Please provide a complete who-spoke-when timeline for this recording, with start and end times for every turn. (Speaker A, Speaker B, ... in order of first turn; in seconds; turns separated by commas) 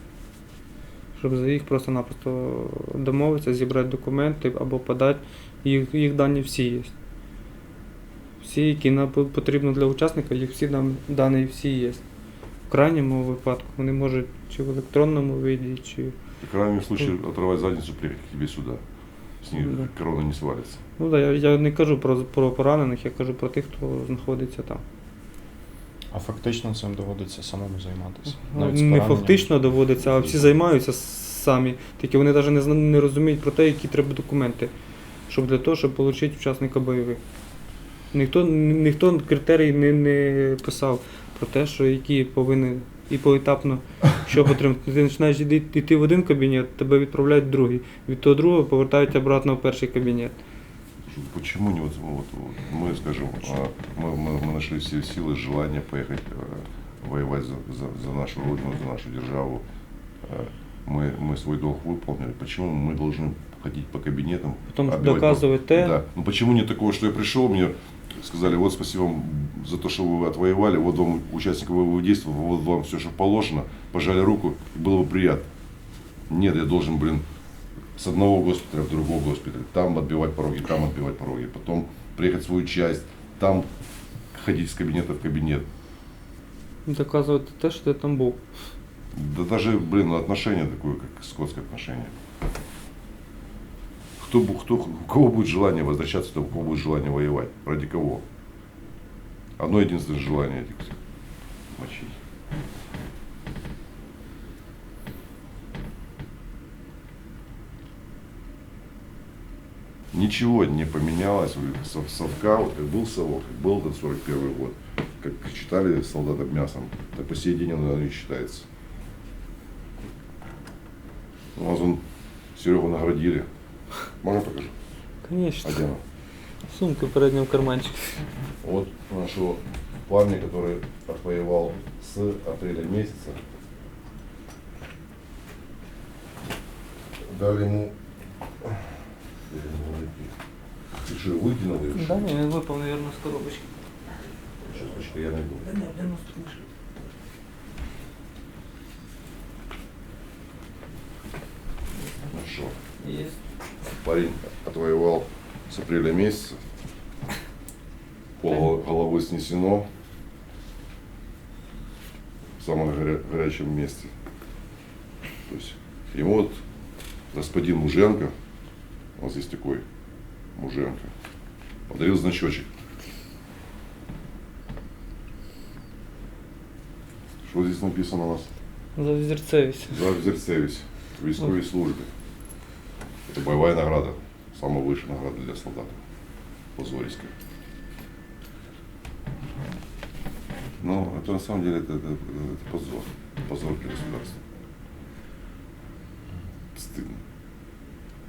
Speaker A: 1.1-6.9, Speaker A: 8.4-12.0, Speaker A: 12.7-16.1, Speaker B: 16.4-18.8, Speaker B: 19.4-20.8, Speaker A: 19.6-19.9, Speaker A: 21.0-24.8, Speaker C: 26.1-29.5, Speaker A: 28.3-34.7, Speaker A: 35.3-37.2, Speaker A: 38.1-50.4, Speaker B: 51.0-59.6, Speaker B: 60.2-75.5, Speaker A: 64.7-66.0, Speaker B: 76.3-77.2, Speaker B: 78.0-83.7, Speaker B: 84.3-85.7, Speaker A: 86.8-88.4, Speaker B: 89.1-92.1, Speaker B: 94.2-98.2, Speaker B: 99.6-101.0, Speaker B: 101.7-102.2, Speaker B: 110.1-118.7, Speaker B: 121.5-122.0, Speaker B: 122.5-123.5, Speaker B: 124.2-124.7, Speaker A: 125.2-125.8, Speaker B: 125.6-126.0, Speaker A: 126.6-128.2, Speaker B: 128.6-133.4, Speaker B: 137.2-137.9, Speaker B: 138.6-140.3, Speaker B: 140.9-142.3, Speaker A: 141.9-143.8, Speaker B: 144.6-145.7, Speaker A: 145.6-146.7, Speaker B: 152.3-152.8, Speaker A: 153.0-153.4, Speaker B: 154.0-156.6, Speaker B: 158.4-159.9, Speaker B: 162.6-164.1, Speaker B: 165.5-166.6, Speaker B: 167.3-168.3, Speaker B: 169.2-169.8, Speaker B: 170.6-171.1, Speaker B: 171.9-172.7, Speaker B: 177.4-178.5, Speaker A: 178.9-180.0, Speaker B: 179.9-182.1, Speaker B: 183.3-186.0, Speaker B: 186.8-187.3, Speaker B: 190.8-194.4, Speaker B: 196.7-197.2